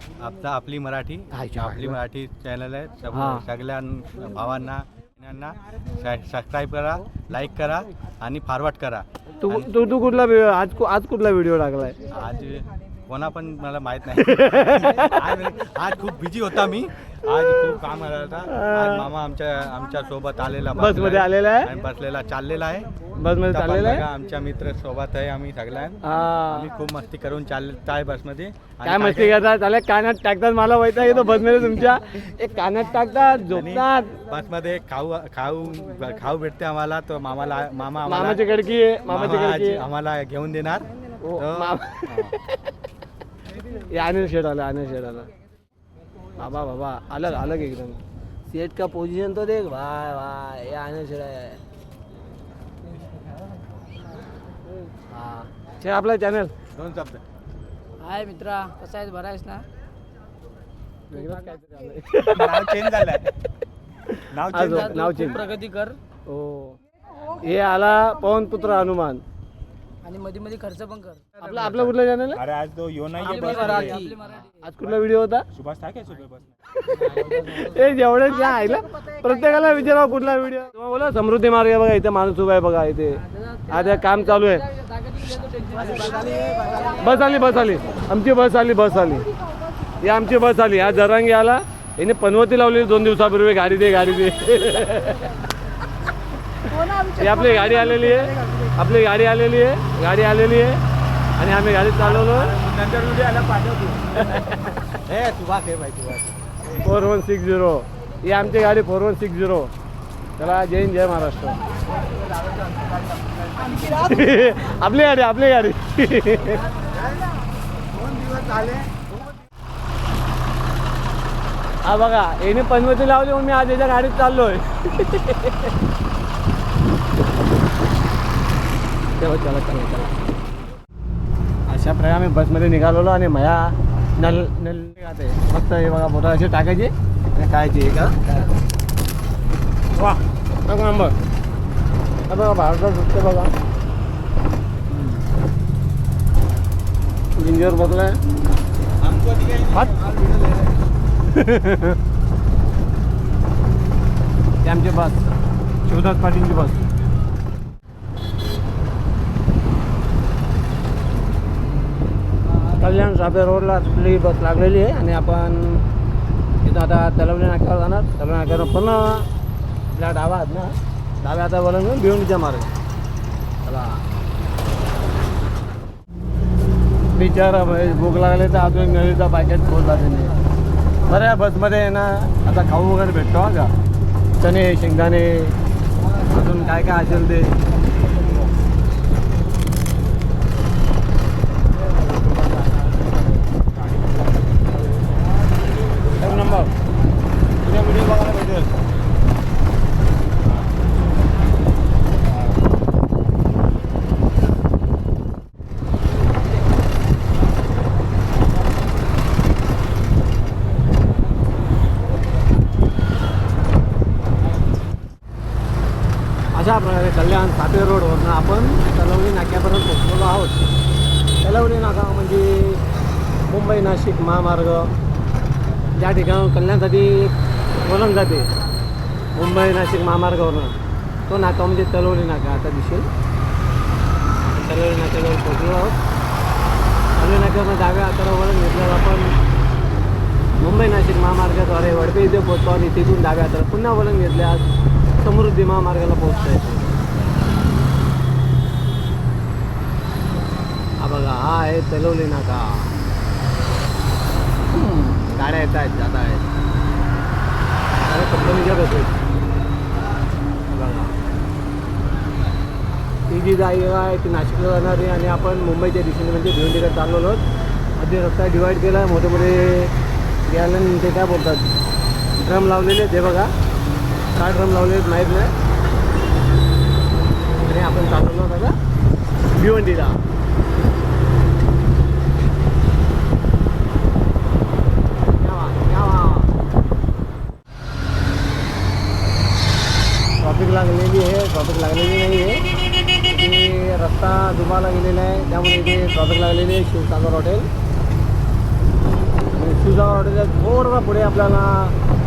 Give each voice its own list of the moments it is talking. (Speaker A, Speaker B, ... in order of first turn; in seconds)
Speaker A: 0.2-9.7, 12.1-22.9, 23.5-29.4, 33.5-38.5, 39.0-42.4, 56.8-57.2, 102.0-104.0, 105.1-106.3, 112.1-113.6, 118.1-118.7
Speaker B: 1.3-2.0, 3.1-3.4, 9.4-12.0, 14.2-15.2, 18.5-19.1, 20.8-21.7, 23.2-24.1, 26.0-26.7, 28.8-34.2, 38.1-39.8, 41.2-42.6, 43.8-45.3, 46.4-51.6, 55.1-56.5, 61.1-62.9, 64.1-65.4, 66.3-69.2, 71.4-72.4, 73.8-75.5, 76.8-84.7, 86.8-89.3, 90.0-95.3, 96.7-100.8, 101.4-102.5, 104.2-104.7, 106.8-109.7, 110.4-111.6, 113.7-116.7, 121.9-125.7, 129.2-130.2, 131.7-138.4, 140.0-141.2, 142.3-143.5, 147.3-148.2, 149.7-150.0, 151.2-152.0, 154.6-156.9, 162.6-165.8, 166.6-169.3, 169.9-172.7, 173.6-174.1, 177.2-180.3, 181.1-183.7, 184.4-185.6, 186.2-187.6, 192.2-192.8, 196.2-196.7, 197.6-198.7, 216.5-220.6, 221.4-222.8, 223.4-224.9, 226.0-228.5, 229.3-230.8, 231.3-233.1, 234.5-236.0, 237.2-239.3, 240.6-244.7, 245.2-246.9, 251.0-253.0, 254.7-256.5, 258.0-259.2, 260.7-261.2, 263.3-267.4, 268.0-269.9, 270.5-271.7, 272.4-273.5, 274.3-275.5, 277.7-278.8, 279.5-280.2, 285.4-286.5, 290.4-292.6, 293.3-297.7, 299.6-302.0
Speaker C: 58.0-59.7, 64.6-66.0, 70.0-71.2, 73.2-74.4, 77.0-77.9, 84.9-87.0
Speaker D: 62.2-63.3, 64.3-65.5, 72.3-74.3, 75.5-76.5, 149.0-150.5, 193.6-195.1